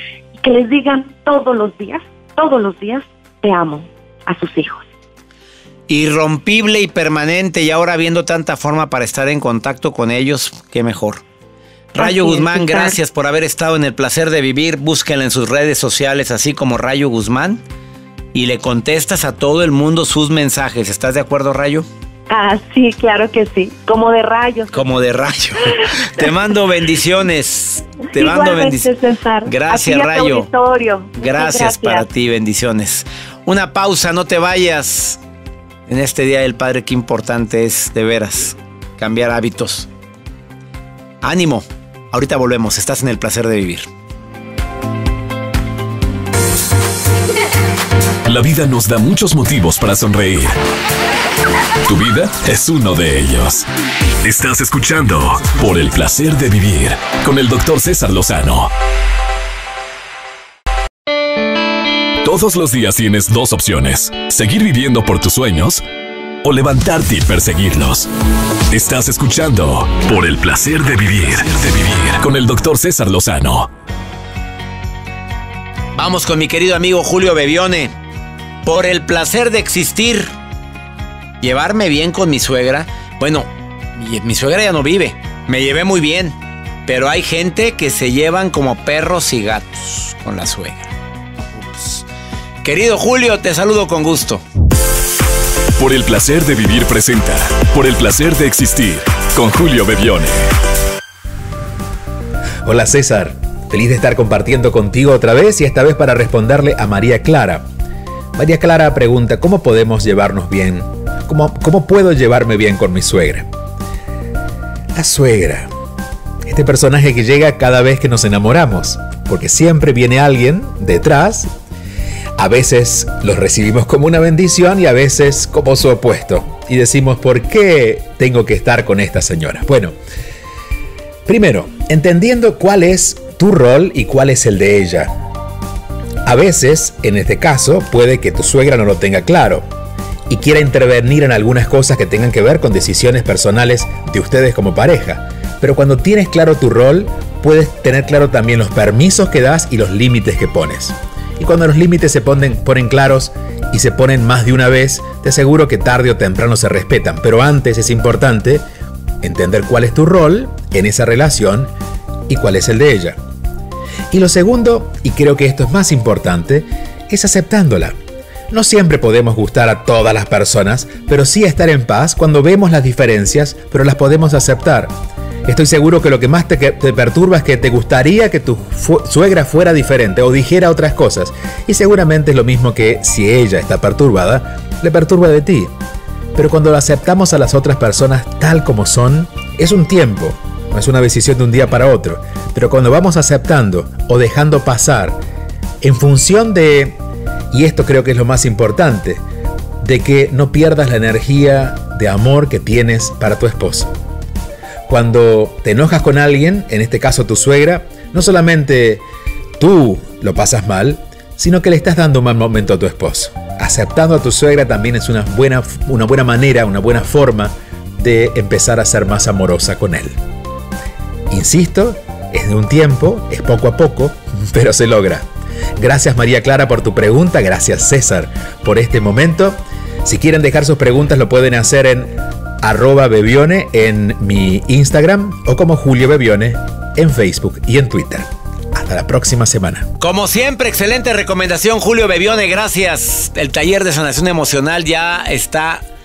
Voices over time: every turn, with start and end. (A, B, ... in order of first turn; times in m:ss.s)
0:00.4-0:04.9 A
0:05.9-0:11.2 B
0:11.9-0:17.6 B
0:12.0-0:13.0 A
0:18.3-0:21.9 B
0:22.3-0:25.0 A
0:24.7-0:28.9 B
0:28.1-0:32.1 A
0:29.4-0:30.5 B
0:31.2-0:35.2 B
0:35.9-0:39.9 B
0:41.2-0:43.9 B
0:48.2-0:50.6 C
0:51.9-0:53.7 C
0:54.2-0:58.7 C
1:02.2-1:05.8 C
1:06.4-1:08.1 C
1:08.7-1:13.7 C
1:15.9-1:17.9 B
1:18.6-1:20.3 B
1:21.4-1:32.1 B
1:32.6-1:34.4 B
1:35.8-1:40.5 C
1:42.6-1:47.6 D
1:48.4-1:53.5 D
1:54.9-1:55.7 D
1:56.4-2:01.5 D
2:02.4-2:10.0 D
2:11.2-2:15.1 D
2:16.2-2:19.6 D
2:20.3-2:38.6 D
2:39.2-2:41.7 D
2:42.3-2:43.2 D
2:44.1-2:48.0 D
2:48.5-2:54.9 D
2:55.5-3:05.7 D
3:06.4-3:15.2 D
3:15.8-3:17.0 D
3:17.5-3:19.2 D
3:19.8-3:23.9 D
3:24.9-3:29.0 D
3:29.6-3:40.2 D
3:41.3-3:45.2 D
3:45.8-3:59.9 D
4:00.0-4:05.8 B